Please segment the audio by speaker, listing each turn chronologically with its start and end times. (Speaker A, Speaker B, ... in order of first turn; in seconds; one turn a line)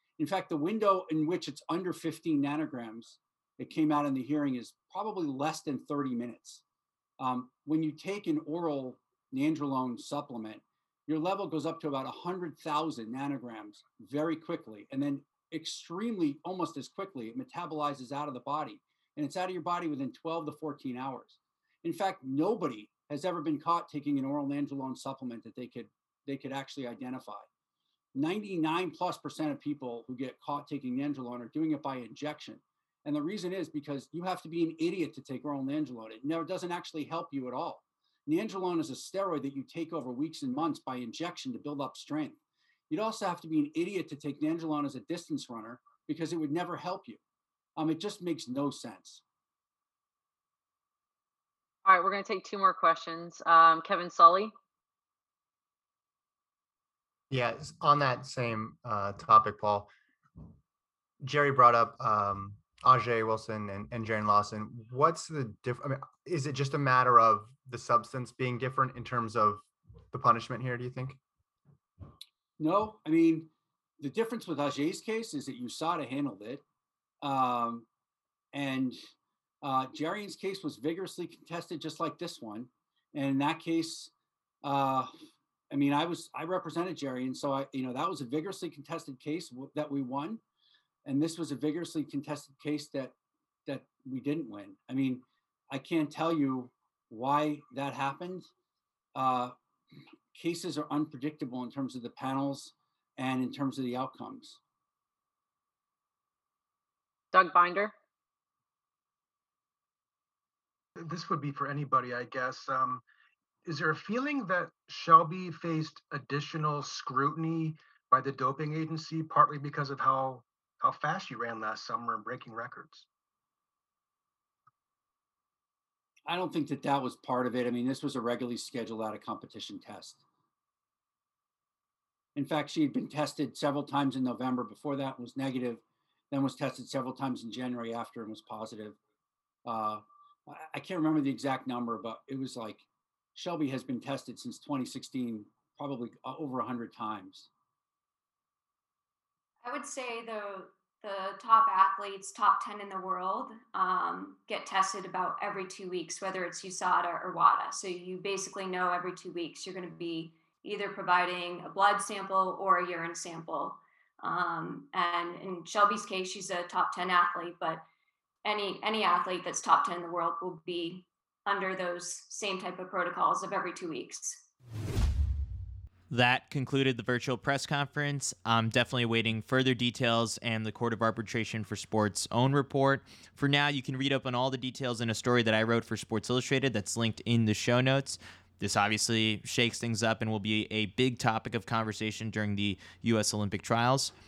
Speaker A: 0.2-6.6
Speaker A: 7.2-27.5
Speaker A: 28.1-42.4
Speaker A: 42.9-47.2
Speaker A: 47.8-49.2
Speaker B: 51.9-54.5
Speaker C: 57.3-59.9
Speaker C: 61.2-71.2
Speaker A: 72.6-76.6
Speaker A: 77.2-77.9
Speaker A: 78.5-79.1
Speaker A: 79.6-84.1
Speaker A: 84.6-85.1
Speaker A: 85.7-90.4
Speaker A: 91.0-93.1
Speaker A: 93.7-98.5
Speaker A: 99.2-99.5
Speaker A: 100.3-104.6
Speaker B: 107.3-107.9
Speaker D: 111.0-113.0
Speaker D: 113.7-123.0
Speaker A: 126.3-130.2
Speaker A: 132.3-139.0
Speaker A: 139.7-147.5
Speaker E: 149.6-167.8
Speaker E: 168.4-174.4
Speaker F: 176.1-194.1